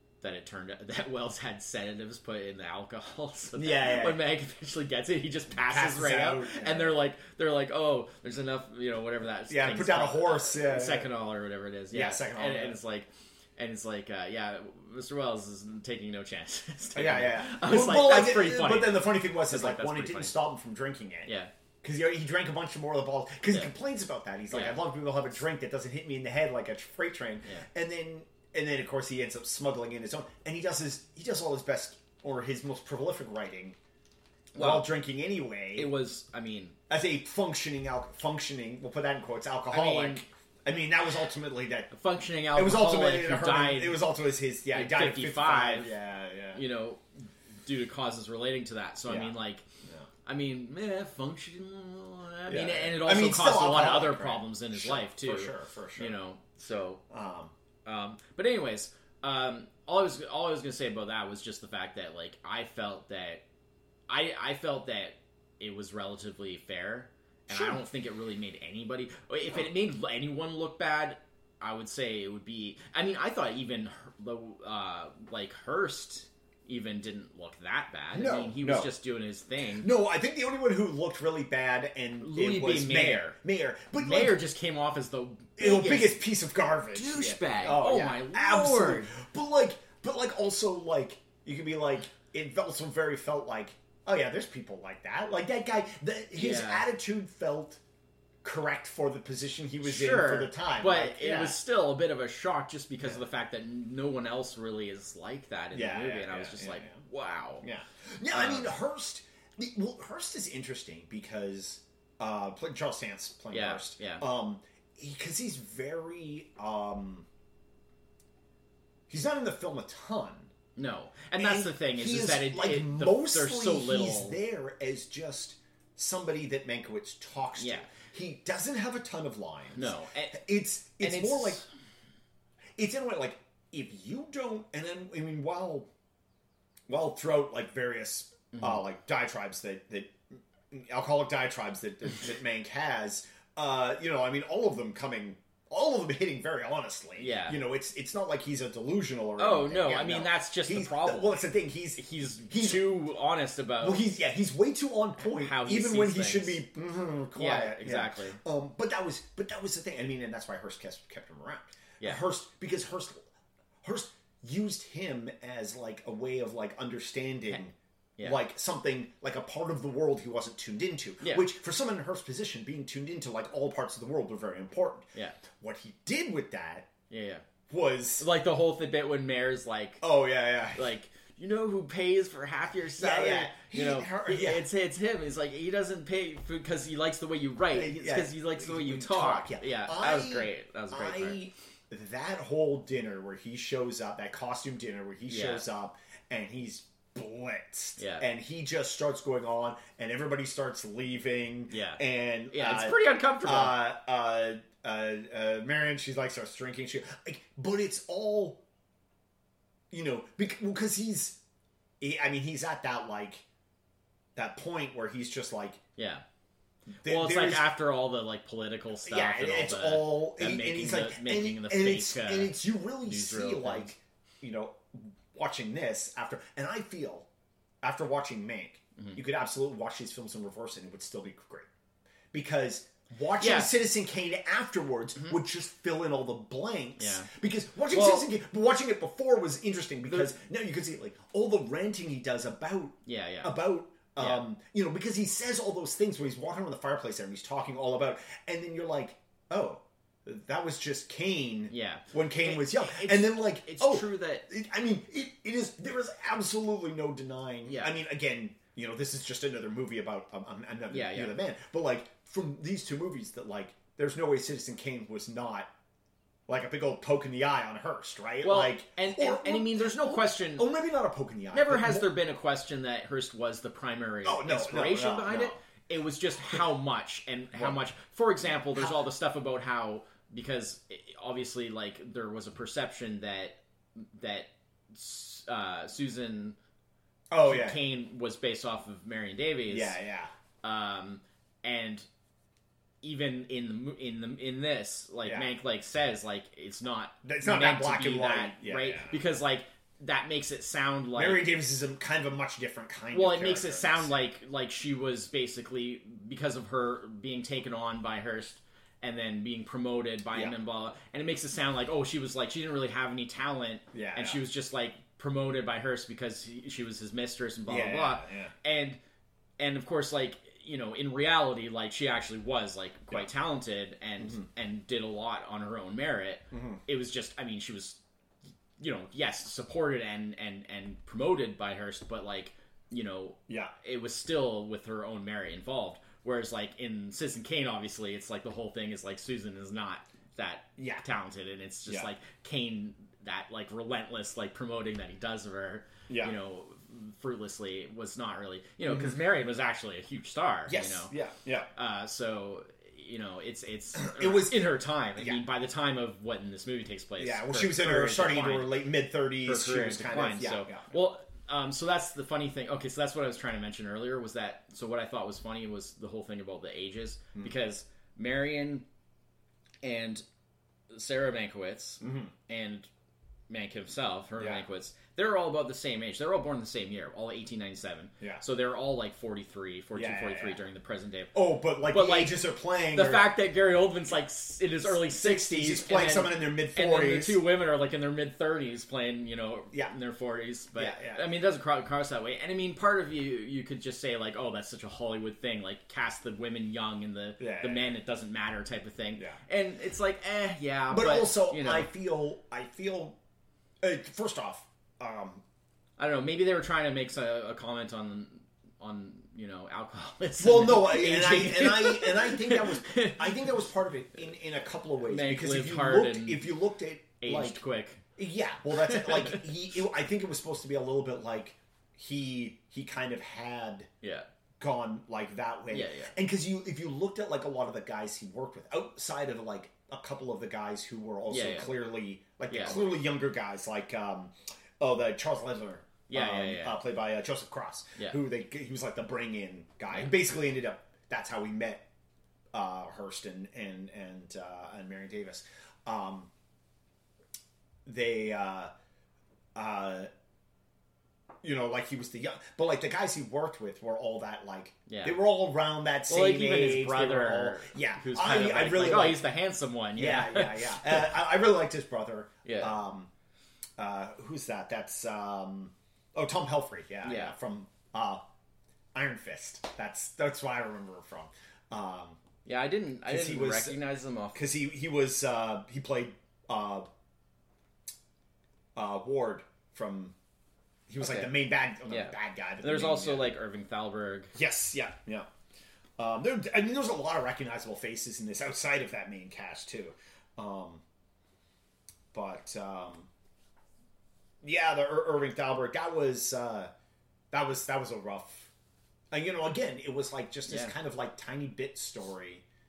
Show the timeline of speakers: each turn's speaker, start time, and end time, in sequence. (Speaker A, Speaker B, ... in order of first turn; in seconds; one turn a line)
Speaker A: 0.2-20.3
Speaker B: 3.5-4.2
Speaker B: 5.7-7.0
Speaker B: 9.5-11.1
Speaker B: 11.9-12.8
Speaker B: 16.9-33.8
Speaker A: 21.2-21.5
Speaker A: 24.5-24.8
Speaker A: 34.5-34.9
Speaker B: 34.5-35.9
Speaker A: 35.7-36.8
Speaker B: 36.9-41.9
Speaker A: 39.7-40.3
Speaker A: 41.9-44.0
Speaker B: 42.5-46.6
Speaker A: 44.7-46.0
Speaker A: 46.5-49.6
Speaker B: 49.1-49.3
Speaker A: 50.2-57.0
Speaker B: 52.5-56.1
Speaker B: 57.1-57.5
Speaker A: 57.8-63.4
Speaker A: 64.1-79.9
Speaker B: 67.5-67.8
Speaker B: 78.1-78.9
Speaker B: 79.8-84.4
Speaker A: 82.2-83.4
Speaker A: 84.0-86.2
Speaker B: 85.6-97.8
Speaker A: 86.9-89.1
Speaker A: 96.3-96.9
Speaker B: 98.4-101.6
Speaker A: 99.8-107.7
Speaker B: 105.7-107.0
Speaker B: 107.6-117.2
Speaker A: 108.3-108.8
Speaker A: 113.5-114.2
Speaker B: 119.1-120.5
Speaker A: 120.8-124.4
Speaker B: 121.3-131.6
Speaker A: 127.6-127.9
Speaker A: 129.7-130.4
Speaker A: 131.0-131.7
Speaker B: 132.8-135.9
Speaker B: 136.9-140.2
Speaker A: 138.5-138.8
Speaker B: 140.7-152.9
Speaker A: 147.2-147.6
Speaker A: 149.4-151.4
Speaker A: 152.0-154.1
Speaker B: 153.8-163.3
Speaker A: 155.2-156.6
Speaker A: 157.3-158.4
Speaker B: 163.8-176.9
Speaker A: 168.2-168.4
Speaker A: 171.2-171.5
Speaker A: 175.1-175.4
Speaker A: 177.1-177.4
Speaker B: 177.7-178.3
Speaker A: 178.2-180.0
Speaker B: 180.0-180.9
Speaker A: 180.7-191.4
Speaker B: 182.9-184.6
Speaker B: 187.7-208.6
Speaker A: 195.3-195.7
Speaker A: 198.0-198.2
Speaker A: 201.7-203.8
Speaker B: 209.9-211.4
Speaker B: 212.0-213.4
Speaker B: 214.3-215.8
Speaker A: 216.0-216.2
Speaker B: 217.0-217.7
Speaker A: 217.0-223.9
Speaker B: 219.0-227.2
Speaker B: 227.8-231.7
Speaker B: 232.3-265.7
Speaker A: 233.4-233.7
Speaker A: 237.0-237.3
Speaker A: 237.9-238.3
Speaker A: 240.0-240.3
Speaker A: 243.0-243.5
Speaker A: 244.2-244.4
Speaker A: 251.7-254.4
Speaker A: 257.6-257.9
Speaker A: 260.9-261.4
Speaker B: 266.5-272.1
Speaker A: 268.4-270.7
Speaker A: 271.5-286.6
Speaker B: 274.2-275.6
Speaker B: 287.3-287.8
Speaker A: 287.4-290.0
Speaker B: 289.7-290.3
Speaker A: 290.6-292.1
Speaker A: 293.0-301.5
Speaker B: 295.2-295.5
Speaker B: 297.2-299.2
Speaker B: 301.1-304.1
Speaker A: 303.1-319.0
Speaker B: 313.9-314.4
Speaker B: 317.7-318.5
Speaker A: 319.6-328.0
Speaker B: 324.2-324.4
Speaker B: 326.5-326.8
Speaker A: 328.8-351.1
Speaker B: 333.5-333.7
Speaker B: 340.8-341.0
Speaker B: 346.1-346.3
Speaker B: 348.9-349.2
Speaker B: 350.7-351.7
Speaker A: 351.7-358.9
Speaker B: 353.9-355.4
Speaker B: 357.2-360.9
Speaker A: 359.4-368.9
Speaker A: 369.8-370.2
Speaker A: 370.9-372.9
Speaker B: 372.0-372.3
Speaker A: 373.5-381.3
Speaker B: 374.4-374.6
Speaker B: 379.9-380.6
Speaker B: 381.3-383.3
Speaker A: 381.9-382.4
Speaker A: 382.9-401.9
Speaker B: 384.8-387.4
Speaker B: 390.8-391.2
Speaker B: 397.4-398.0
Speaker B: 399.1-399.4
Speaker B: 400.9-403.2
Speaker B: 403.8-405.4
Speaker A: 406.0-413.7
Speaker B: 410.4-417.6
Speaker A: 415.1-416.5
Speaker A: 417.2-418.0
Speaker B: 418.1-423.9
Speaker A: 418.7-419.5
Speaker A: 424.0-424.3
Speaker B: 424.6-441.8
Speaker A: 425.7-426.1
Speaker A: 431.3-431.7
Speaker A: 432.5-432.9
Speaker A: 436.1-436.8
Speaker B: 442.5-446.3
Speaker B: 447.9-448.7
Speaker B: 449.5-450.1
Speaker B: 451.4-459.2
Speaker A: 454.9-455.2
Speaker A: 456.1-461.1
Speaker B: 459.9-463.1
Speaker A: 462.4-462.8
Speaker B: 463.8-468.2
Speaker A: 467.0-467.4
Speaker B: 468.9-472.2
Speaker A: 472.4-474.4
Speaker B: 473.0-473.8
Speaker B: 474.3-476.9
Speaker B: 478.8-480.1
Speaker B: 480.9-483.4
Speaker A: 481.0-484.3
Speaker B: 484.3-485.3
Speaker B: 486.0-490.8
Speaker B: 492.1-493.1
Speaker B: 494.4-496.7
Speaker B: 497.3-498.5
Speaker B: 499.1-502.4
Speaker A: 500.5-500.7